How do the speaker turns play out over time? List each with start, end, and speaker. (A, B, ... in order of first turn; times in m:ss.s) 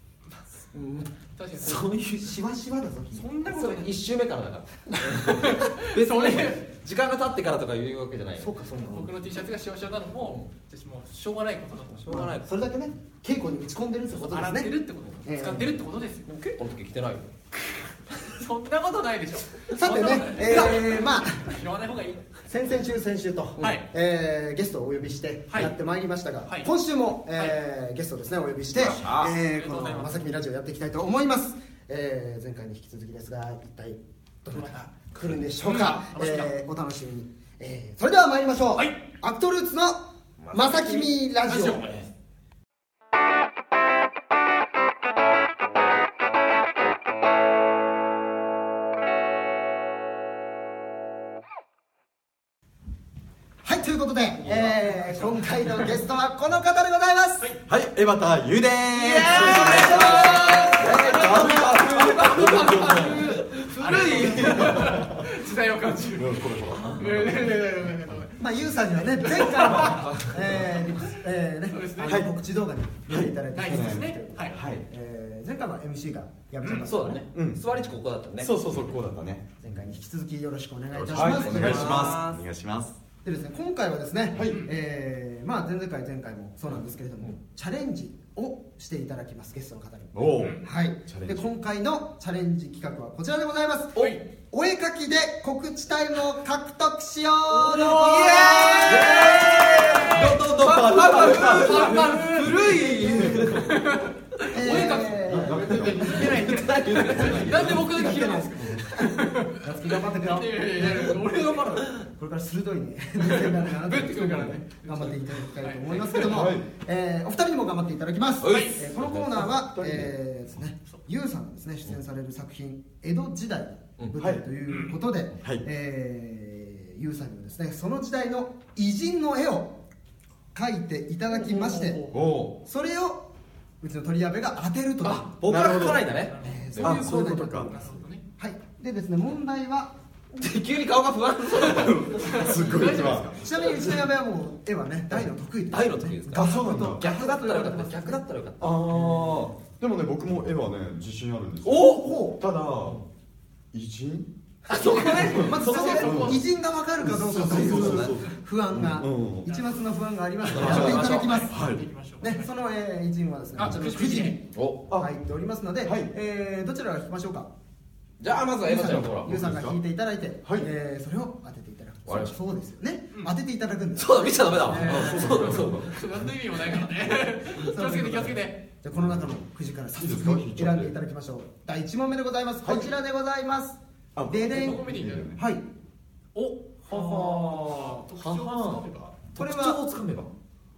0:00.7-0:02.4 A
0:01.4-0:01.9 B
0:02.2-0:03.3 C
0:03.1-0:03.9 B
0:03.5-0:08.5 A
0:05.2-0:06.6 B
0:08.4-0:09.1 C
0:08.9-0:12.2 B
0:10.2-0:10.4 A
0:11.9-0:12.5 A
0:12.0-0:15.8 C
0:14.2-0:16.3 B
0:16.2-0:17.3 A
0:18.3-0:22.4 B
0:19.7-0:21.6 C
0:22.4-0:40.0 C
0:23.6-0:23.8 A
0:23.6-0:23.9 B
0:28.7-0:29.3 A
0:29.4-0:30.2 B
0:34.5-0:34.9 B
0:35.6-0:36.5 B
0:40.4-0:41.1 A
0:40.5-0:41.9 C
0:41.4-0:42.1 B
0:53.6-0:57.5 C
0:54.5-0:55.8 B
0:57.7-1:03.4 D
0:58.9-1:04.9 A
0:59.3-1:00.9 C
0:59.3-1:08.4 B
1:04.6-1:05.2 D
1:06.1-1:07.5 D
1:08.4-1:17.2 C
1:09.2-1:10.1 B
1:09.8-1:10.4 A
1:11.7-1:12.2 B
1:12.0-1:12.3 D
1:13.1-1:14.8 D
1:13.5-1:14.6 B
1:16.6-1:16.9 B
1:16.8-1:18.5 A
1:17.3-1:17.6 D
1:18.4-1:19.4 D
1:19.6-1:22.2 C
1:20.9-1:22.9 D
1:21.1-1:22.4 A
1:23.2-1:38.7 C
1:24.3-1:24.6 D
1:24.4-1:24.7 B
1:30.1-1:31.4 D
1:34.0-1:34.2 B
1:37.5-1:43.9 A
1:37.7-1:40.4 B
1:38.8-1:43.7 D
1:41.1-1:42.5 B
1:42.5-1:43.6 C
1:43.5-1:51.9 B
1:44.5-1:46.4 C
1:44.6-1:48.8 D
1:46.0-1:47.7 A
1:47.6-2:09.8 C
1:53.2-1:56.5 B
1:56.2-1:56.7 D
1:58.4-1:59.5 A
1:58.5-1:58.8 B
1:59.5-2:00.1 D
2:04.2-2:04.4 D
2:04.7-2:05.0 B
2:10.5-2:12.1 C
2:11.3-2:12.1 B
2:12.1-2:12.6 D
2:12.6-2:13.3 C
2:13.8-2:15.3 C
2:15.0-2:17.2 A
2:15.4-2:16.1 D
2:16.1-2:18.2 B
2:16.4-2:19.9 C
2:16.8-2:17.8 D
2:20.3-2:22.1 A
2:21.7-2:23.4 D
2:21.8-2:24.0 B
2:23.3-2:28.2 C
2:25.1-2:29.4 A
2:26.3-2:27.0 D
2:28.6-2:33.0 D
2:31.6-2:32.3 A
2:31.9-2:32.4 C
2:33.7-2:34.3 D
2:34.7-2:36.4 A
2:34.7-2:36.4 B
2:35.1-2:41.6 C
2:35.3-2:36.4 D
2:37.0-2:39.5 D
2:37.4-2:38.2 A
2:39.4-2:39.8 B
2:40.4-2:42.5 B
2:40.5-2:41.4 A
2:40.6-2:40.9 D
2:41.5-2:41.9 D
2:42.2-2:44.4 C
2:43.6-2:44.4 B
2:44.5-2:44.8 A
2:45.0-2:47.5 C
2:45.8-2:46.1 D
2:48.2-2:49.3 A
2:48.6-2:55.6 C
2:48.7-2:49.8 D
2:50.4-2:50.7 D
2:52.0-2:52.4 A
2:54.0-2:56.0 A
2:54.7-2:55.9 D
2:55.2-2:58.6 B
2:57.0-3:05.6 C
2:58.9-2:59.4 D
2:59.9-3:00.9 D
3:02.6-3:02.9 D
3:04.2-3:05.4 D
3:04.3-3:05.3 B
3:06.3-3:09.2 B
3:06.9-3:07.9 C
3:06.9-3:10.3 A
3:09.4-3:09.8 C